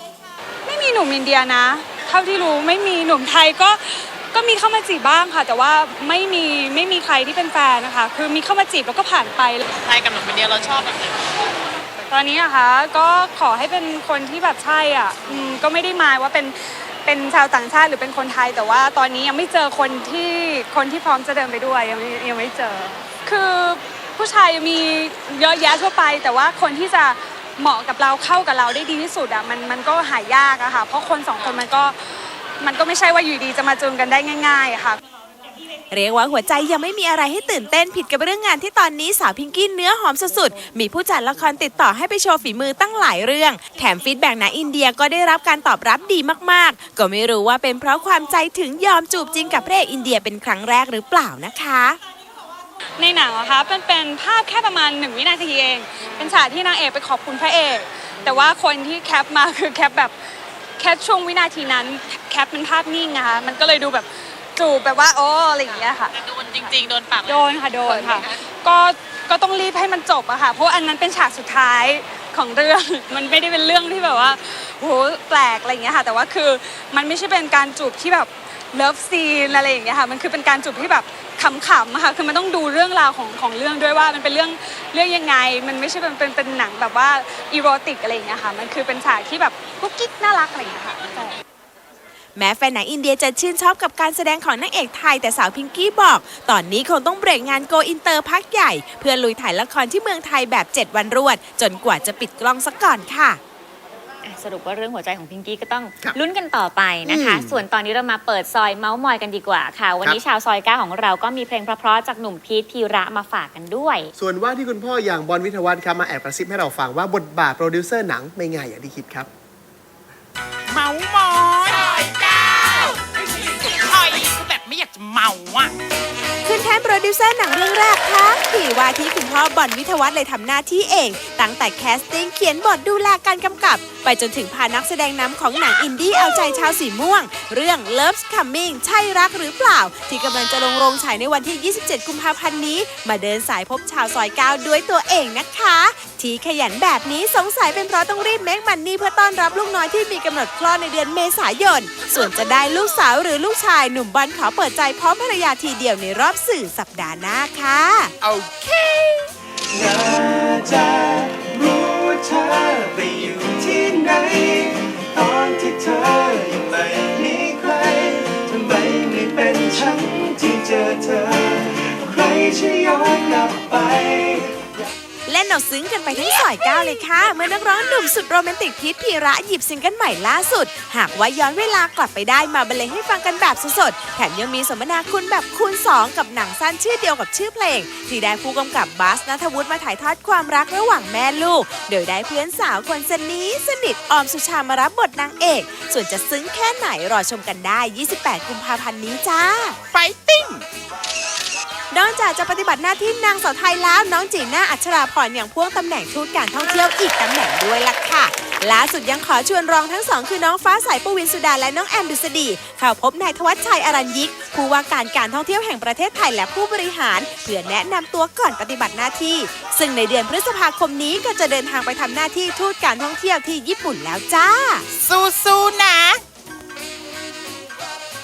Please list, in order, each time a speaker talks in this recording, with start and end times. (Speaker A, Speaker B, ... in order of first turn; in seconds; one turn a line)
Speaker A: 0.7-9.6
Speaker B: 9.8-11.2
Speaker A: 12.1-32.0
Speaker A: 32.6-35.0
Speaker C: 35.9-52.0
Speaker A: 53.0-60.1
Speaker A: 60.8-66.1
Speaker B: 66.2-68.3
Speaker A: 67.3-91.4
Speaker C: 92.4-103.4
Speaker D: 104.2-114.1
Speaker E: 107.0-107.6
Speaker E: 114.1-119.3
Speaker B: 120.7-125.7
Speaker C: 126.5-158.1
Speaker B: 158.2-159.3
Speaker F: 159.7-174.6
Speaker C: 175.3-199.8
Speaker B: 199.9-200.6
Speaker C: 201.9-224.8
Speaker B: 224.9-226.2